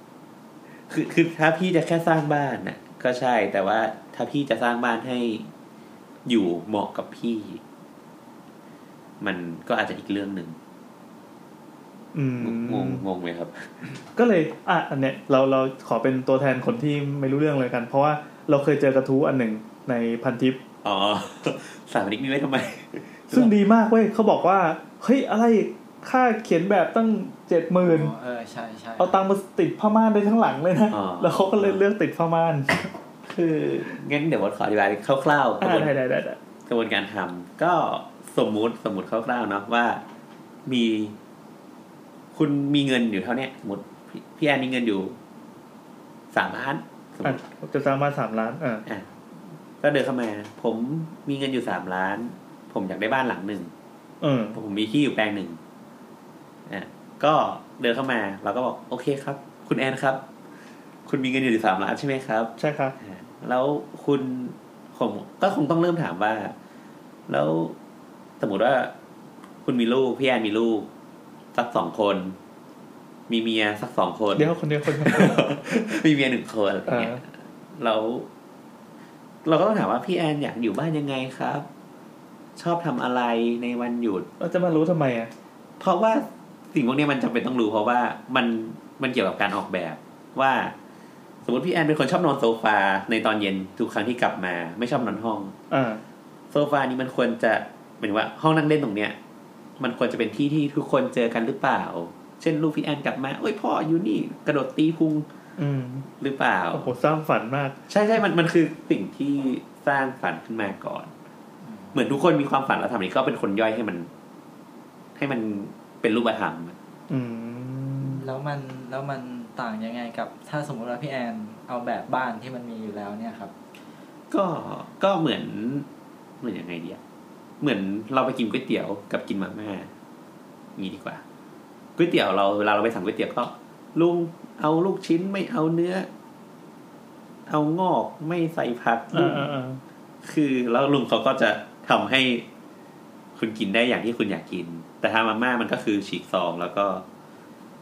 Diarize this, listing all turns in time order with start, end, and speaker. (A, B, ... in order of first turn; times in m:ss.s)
0:00.9-0:05.5 A
0:06.3-0:07.6 A
0:09.2-0:10.6 A
0:12.1-0:13.0 B
0:12.4-0:13.9 A
0:14.2-0:20.6 B
0:20.8-0:23.6 A
0:23.3-0:28.1 B
0:27.8-0:29.2 C
0:29.0-0:32.8 B
0:30.9-0:31.8 A
0:33.3-0:35.9 A
0:35.6-0:36.4 B
0:36.7-0:40.0 A
0:40.7-0:41.2 A
0:42.3-0:45.2 A
0:46.3-0:47.4 A
0:47.2-0:48.8 B
0:49.8-0:53.7 A
0:54.2-0:54.6 B
0:54.5-0:55.6 A
0:56.7-1:00.2 A
1:01.1-1:06.5 A
1:02.6-1:03.0 B
1:07.3-1:07.8 A
1:08.4-1:08.9 A
1:09.6-1:10.9 A
1:11.5-1:12.4 A
1:13.3-1:18.3 A
1:14.4-1:15.9 B
1:16.9-1:17.2 B
1:19.4-1:21.7 A
1:22.6-1:24.3 A
1:24.4-1:25.3 B
1:25.8-1:30.7 A
1:31.4-1:35.5 A
1:35.7-1:36.0 B
1:36.5-1:39.2 A
1:39.8-1:45.3 A
1:45.6-1:46.1 B
1:46.2-1:46.9 A
1:46.7-1:47.8 B
1:47.9-1:51.1 A
1:51.6-1:52.0 C
1:51.9-1:54.1 A
1:55.2-1:56.8 A
1:57.1-1:58.3 B
1:58.0-2:03.5 C
2:04.3-2:05.9 A
2:06.4-2:07.0 A
2:07.6-2:09.9 A
2:10.8-2:11.2 A
2:12.0-2:16.1 A
2:17.5-2:19.5 A
2:19.1-2:19.8 B
2:20.2-2:22.4 A
2:23.4-2:27.0 A